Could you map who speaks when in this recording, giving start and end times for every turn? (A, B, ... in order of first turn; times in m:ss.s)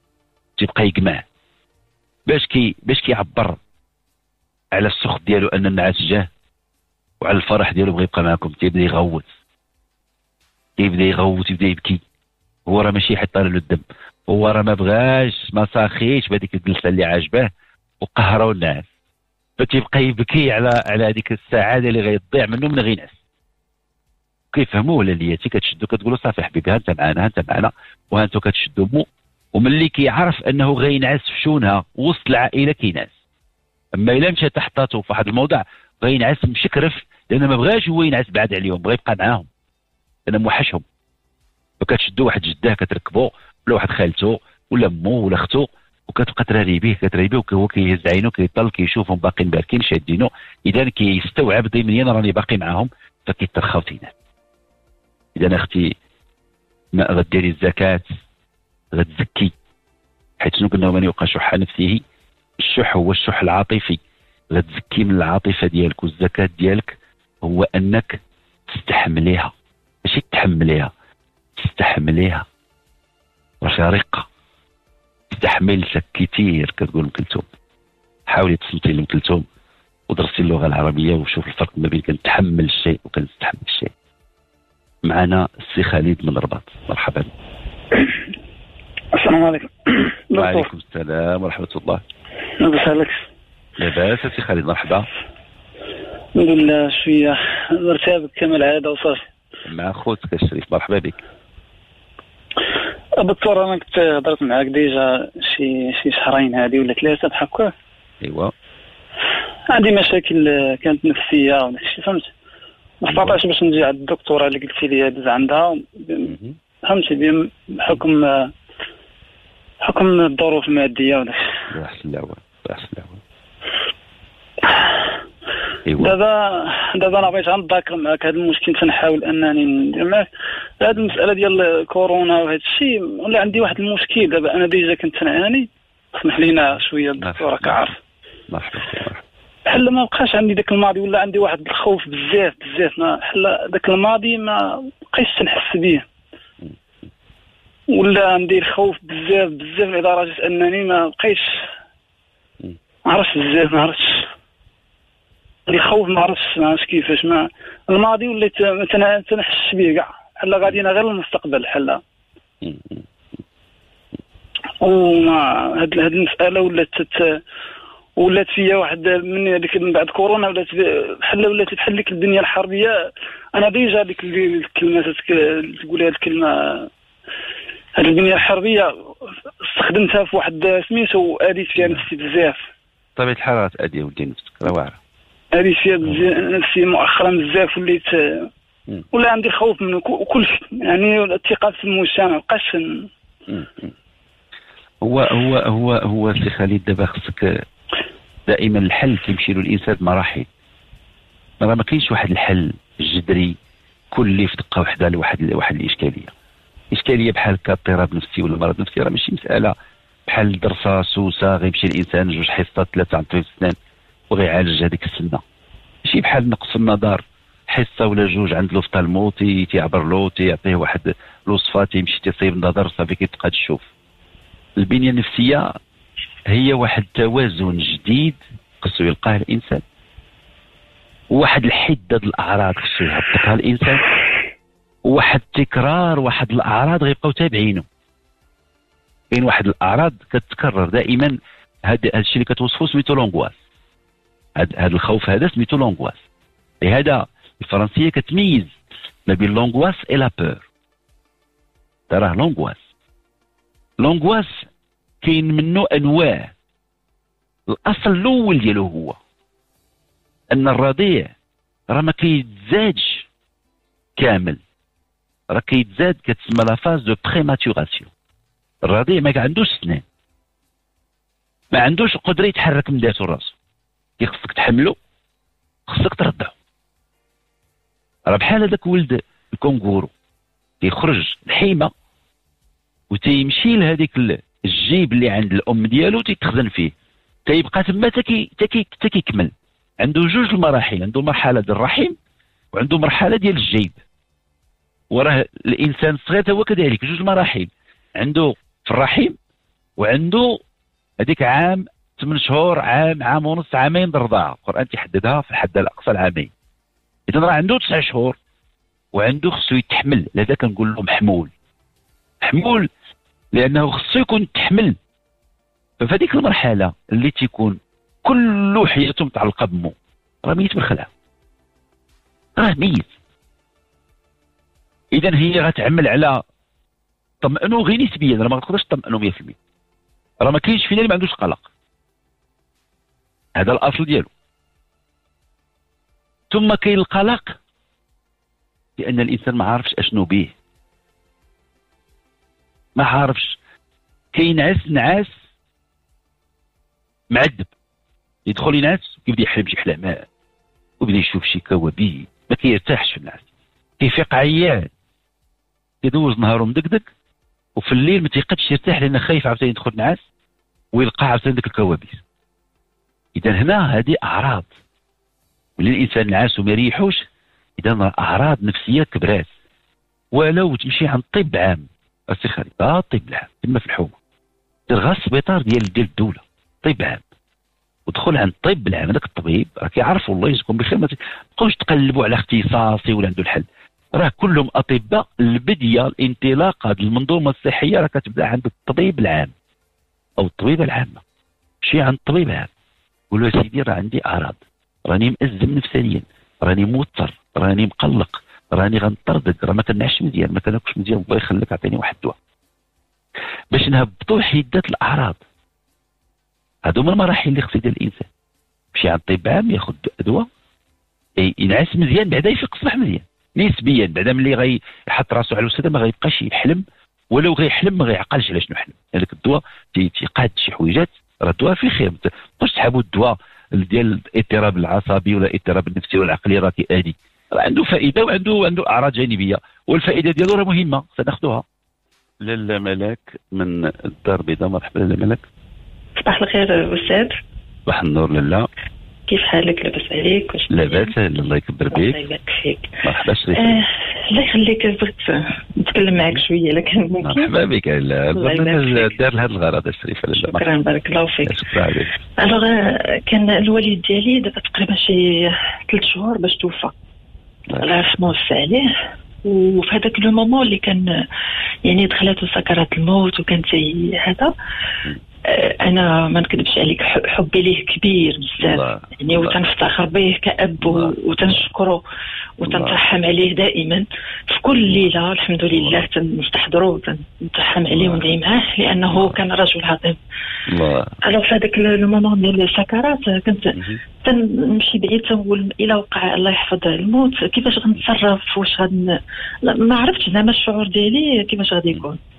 0:00.6-0:01.2 A
0:02.3-0:03.6 A
0:04.7-0:06.3 A
0:07.2-0:09.2 A
0:10.8-0:12.0 A
0:12.7-0:18.9 A
0:19.6-0:23.1 A
0:24.5-0:33.1 A
0:33.9-0:39.5 A
0:40.3-0:40.8 A
0:41.8-0:54.1 A
0:55.4-0:55.9 A
0:56.9-0:58.2 A
0:58.9-0:59.5 A
1:00.4-1:02.0 A
1:02.6-1:04.0 A
1:04.5-1:09.5 A
1:10.0-1:10.9 A
1:11.6-1:12.4 A
1:13.6-1:14.2 A
1:15.3-1:17.4 A
1:18.3-1:19.4 A
1:20.1-1:23.9 A
1:25.0-1:27.3 A
1:29.1-1:30.7 B
1:30.3-1:32.0 A
1:32.6-1:33.2 B
1:33.8-1:35.1 A
1:36.4-1:39.2 B
1:39.6-1:41.2 A
1:43.2-1:47.7 B
1:48.2-1:48.5 A
1:49.7-1:52.3 B
1:53.0-1:56.3 B
1:53.1-1:53.4 A
1:56.2-1:56.5 A
1:56.8-1:58.5 B
1:59.8-2:01.4 B
2:01.7-2:03.2 A
2:05.8-2:06.2 A
2:06.0-2:10.3 B
2:10.8-2:17.9 B
2:17.2-2:17.9 A
2:18.5-2:19.2 A
2:19.7-2:26.0 B
2:27.9-2:31.5 B
2:33.1-2:34.2 B
2:35.7-2:42.0 B
2:42.6-2:43.0 A
2:44.8-2:47.4 B
2:48.2-2:52.9 B
2:53.6-2:56.9 B
2:58.0-2:58.9 B
2:59.6-3:02.6 B
3:01.8-3:02.1 A
3:03.2-3:05.0 A
3:05.5-3:08.5 B
3:09.1-3:13.0 B
3:13.5-3:13.9 A
3:15.0-3:17.6 A
3:18.5-3:20.5 A
3:21.6-3:23.6 A
3:24.1-3:26.3 A
3:26.9-3:29.7 A
3:30.3-3:33.8 A
3:34.3-3:35.4 A
3:36.0-3:43.8 A
3:44.8-3:45.7 A
3:46.5-3:49.8 A
3:51.3-3:54.0 A
3:55.0-3:57.8 A
3:59.3-4:03.5 A
4:04.6-4:06.2 A
4:06.8-4:08.7 A
4:09.3-4:10.6 A
4:12.1-4:12.8 A
4:14.0-4:14.6 A
4:15.2-4:16.5 A
4:17.7-4:19.2 A
4:20.5-4:21.3 A
4:21.9-4:23.2 A
4:24.2-4:24.6 A
4:25.5-4:28.1 A
4:28.8-4:30.0 A
4:31.7-4:33.5 A
4:34.2-4:35.0 A
4:35.9-4:36.5 A
4:38.3-4:40.1 A
4:40.8-4:41.9 A
4:43.1-4:46.9 A
4:47.5-4:52.2 A
4:52.7-4:54.0 A
4:55.1-4:59.4 A
5:00.0-5:00.6 A
5:01.2-5:06.5 A
5:07.3-5:08.4 A
5:09.1-5:11.5 A
5:12.4-5:12.9 A
5:13.5-5:15.0 A
5:16.0-5:21.1 A
5:22.6-5:23.1 A
5:25.1-5:26.4 A
5:27.4-5:29.5 A
5:30.4-5:31.6 A
5:33.6-5:34.3 A
5:36.5-5:37.6 A
5:39.0-5:40.5 A
5:43.0-5:43.6 A
5:44.3-5:45.3 A
5:47.3-5:47.7 A
5:48.4-5:50.2 A
5:51.0-5:53.4 A
5:54.0-5:54.9 A
5:56.0-5:57.0 A
5:57.8-6:00.2 A
6:00.9-6:02.2 A
6:03.4-6:04.7 A
6:05.8-6:07.2 A
6:07.8-6:09.5 A
6:10.3-6:14.1 A
6:14.9-6:17.2 A
6:18.1-6:29.5 A
6:30.4-6:31.2 A
6:31.8-6:32.7 A
6:33.3-6:42.3 A
6:43.7-6:45.4 A
6:46.8-6:48.3 A
6:48.9-6:50.5 A
6:51.4-7:11.6 A
7:12.4-7:15.4 A
7:16.2-7:17.3 C
7:17.9-7:18.7 A
7:19.3-7:21.1 C
7:20.7-7:22.2 A
7:21.9-7:22.9 C
7:23.0-7:23.8 A
7:23.5-7:27.5 C
7:27.2-7:30.6 A
7:28.3-7:29.1 C
7:30.3-7:31.6 C
7:31.4-7:32.1 A
7:32.4-7:36.9 C
7:37.8-7:38.9 C
7:39.4-7:41.1 C
7:41.8-7:44.5 C
7:45.5-7:52.0 C
7:48.6-7:49.6 A
7:50.8-7:51.7 A
7:52.6-8:00.2 C
7:52.6-7:53.0 A
7:54.8-7:55.1 A
7:55.7-7:56.0 A
7:57.9-7:58.3 A
7:59.0-7:59.4 A
8:00.7-8:01.2 A
8:01.2-8:09.0 C
8:03.7-8:04.0 A
8:09.6-8:12.2 C